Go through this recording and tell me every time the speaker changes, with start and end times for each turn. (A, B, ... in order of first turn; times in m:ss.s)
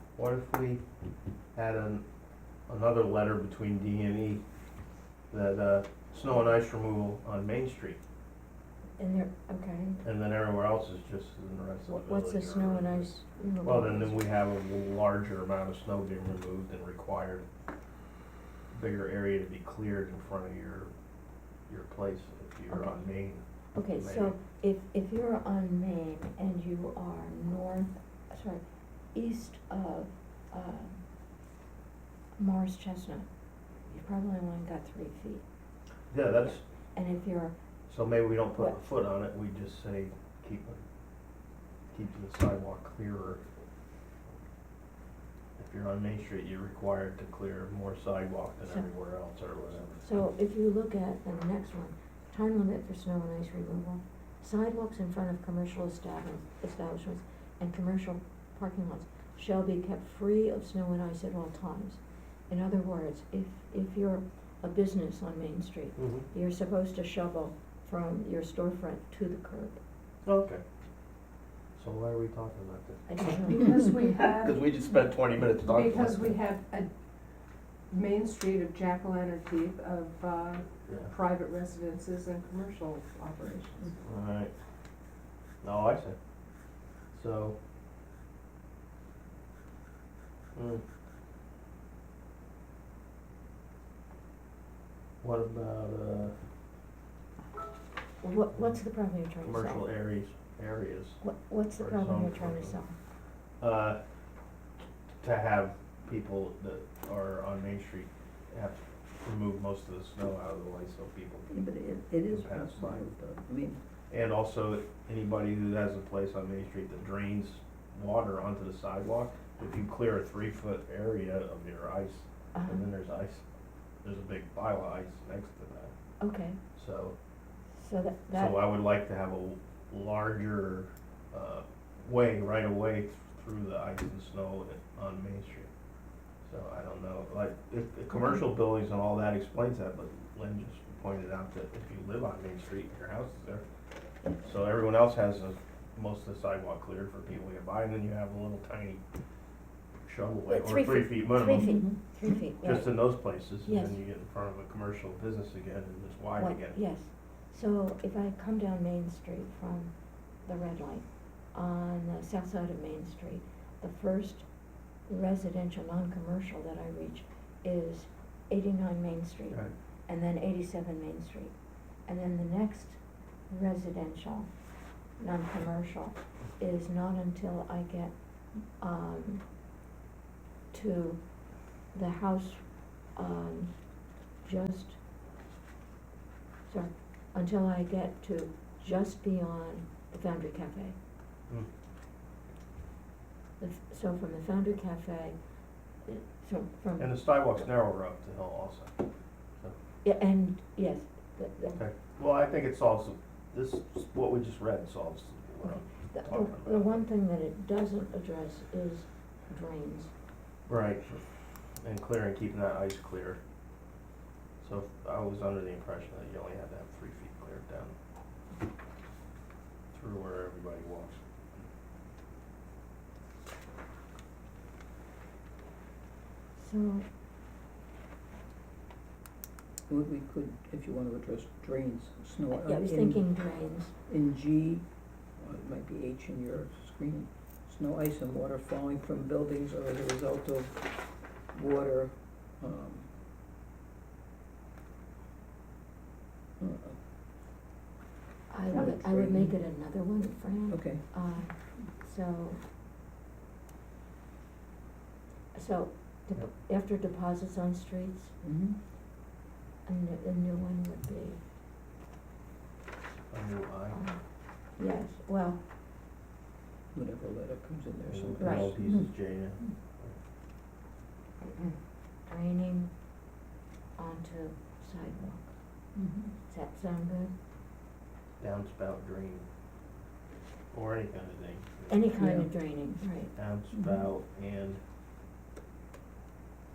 0:00.2-0:00.8 A
0:01.5-0:02.0 A
0:02.7-0:04.4 A
0:05.3-0:08.0 A
0:09.0-0:10.0 B
0:10.0-0:17.4 A
0:11.9-0:14.2 B
0:18.7-0:20.9 A
0:21.7-0:24.4 A
0:22.7-0:23.0 B
0:23.7-0:28.6 B
0:29.1-0:31.0 B
0:32.4-0:33.3 B
0:33.9-0:35.4 B
0:36.1-0:36.6 A
0:36.4-0:37.5 B
0:37.9-0:40.8 A
0:41.9-0:43.4 A
0:45.6-0:50.0 A
0:50.0-1:09.8 B
1:06.0-1:06.3 A
1:10.2-1:10.6 A
1:11.8-1:13.0 A
1:13.1-1:13.8 B
1:13.4-1:14.6 C
1:14.0-1:16.4 A
1:15.6-1:16.9 C
1:17.9-1:24.0 C
1:20.9-1:21.1 A
1:24.0-1:24.5 A
1:25.6-1:26.2 A
1:27.1-1:27.6 A
1:30.5-1:30.8 A
1:35.2-1:36.4 A
1:38.2-1:39.9 B
1:39.4-1:41.2 A
1:41.2-1:42.9 B
1:41.8-1:42.8 A
1:43.6-1:44.0 A
1:45.2-1:51.6 A
1:51.5-1:53.8 D
1:52.3-1:53.0 A
1:54.1-2:03.4 A
2:02.5-2:02.8 B
2:04.0-2:05.9 A
2:06.2-2:06.6 B
2:06.8-2:07.2 A
2:07.8-2:08.6 B
2:08.3-2:15.7 A
2:16.4-2:23.6 A
2:24.4-2:29.0 A
2:30.0-2:31.8 A
2:30.5-2:34.0 B
2:31.6-2:32.3 D
2:32.6-2:36.8 A
2:36.4-2:54.5 B
2:55.2-2:59.4 B
3:00.7-3:02.6 B
3:03.1-3:03.7 B
3:04.4-3:05.0 B
3:06.7-3:10.9 B
3:13.6-3:15.4 B
3:16.0-3:17.1 B
3:17.0-3:18.9 A
3:20.0-3:21.8 B
3:21.7-3:27.0 A
3:25.6-3:30.1 B
3:30.6-3:31.2 A
3:31.8-3:33.4 A
3:34.6-3:38.0 A
3:39.9-3:41.2 A
3:46.6-3:47.0 B
3:49.9-3:53.3 D
3:52.6-3:53.9 B
3:54.1-4:03.1 D
4:06.6-4:07.0 D
4:08.5-4:12.6 B
4:08.7-4:09.6 D
4:10.7-4:11.0 D
4:15.5-4:18.3 B
4:18.4-4:18.8 D
4:19.8-4:21.4 B
4:23.3-4:24.0 A
4:23.9-4:25.6 B
4:26.9-4:29.1 D
4:28.1-4:30.2 A
4:28.4-4:28.8 B
4:31.5-4:31.7 C
4:32.3-4:32.9 B
4:34.0-4:35.5 B
4:36.0-4:36.3 D
4:36.5-4:37.3 B
4:38.4-4:39.5 A
4:40.7-4:42.1 A
4:41.9-4:43.3 B
4:42.2-4:42.5 D
4:43.4-4:44.8 A
4:43.7-4:44.0 D